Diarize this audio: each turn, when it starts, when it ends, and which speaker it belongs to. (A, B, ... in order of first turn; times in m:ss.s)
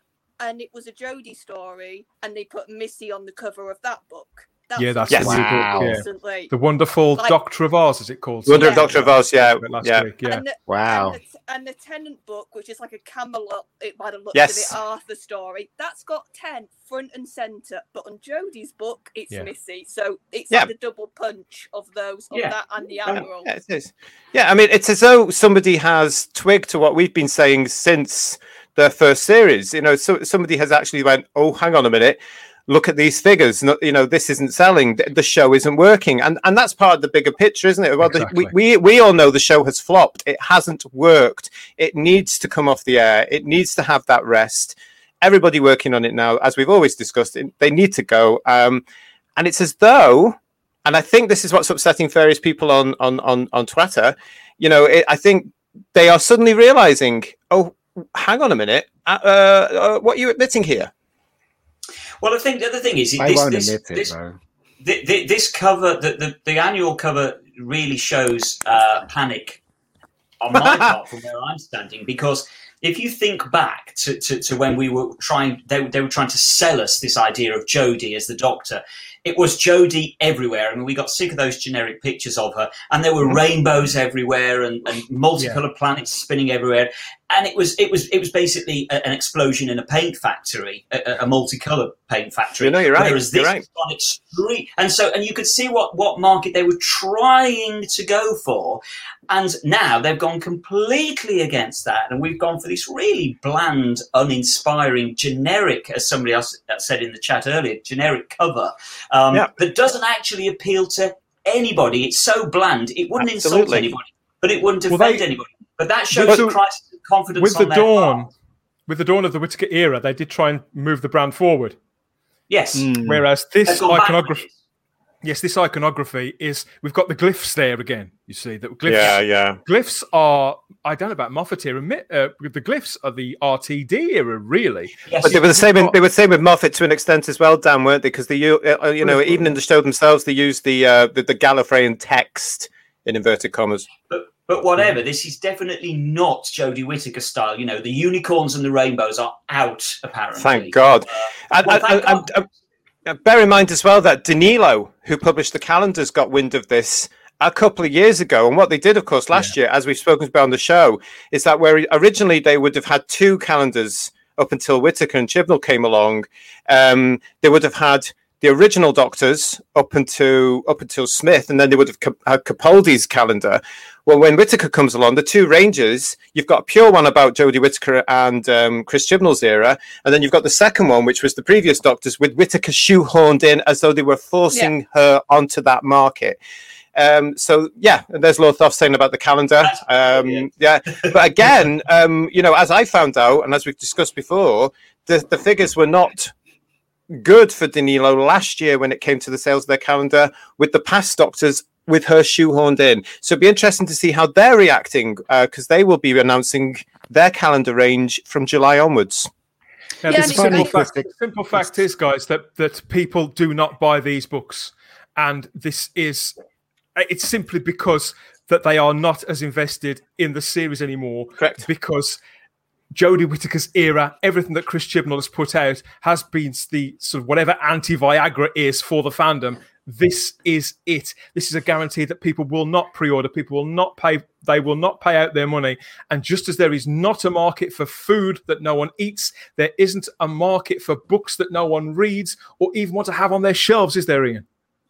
0:00.4-0:06.5 A
0:04.8-0:10.4 B
0:05.1-0:05.4 C
0:05.2-0:06.0 D
0:08.5-0:10.1 C
0:08.6-0:09.0 A
0:10.2-0:23.5 A
0:10.7-0:11.2 D
0:14.3-0:14.8 C
0:23.1-0:48.8 C
0:38.0-0:38.5 B
0:49.4-1:00.9 C
1:02.2-1:04.1 E
1:03.2-1:04.3 D
1:04.8-1:09.6 E
1:10.4-1:58.2 E
1:10.5-1:10.9 C
1:32.6-1:33.6 C
1:53.2-1:53.9 C
1:54.9-1:55.2 B
1:56.1-1:56.6 B
1:57.4-1:58.3 B
1:58.9-2:01.8 B
2:02.5-2:02.9 E
2:02.8-2:03.2 D
2:03.0-2:04.4 B
2:03.7-2:04.5 E
2:05.2-2:16.0 B
2:08.9-2:09.6 C
2:15.1-2:15.4 E
2:15.2-2:23.9 C
2:19.0-2:19.5 B
2:24.1-2:32.3 E
2:30.4-2:32.4 C
2:33.1-3:06.4 C
3:07.0-3:16.3 C
3:09.6-3:11.5 E
3:17.1-3:29.3 C
3:30.0-3:36.3 B
3:30.1-3:30.7 A
3:30.1-3:31.1 D
3:37.0-3:42.2 B
3:41.4-3:41.6 C
3:42.9-4:04.4 B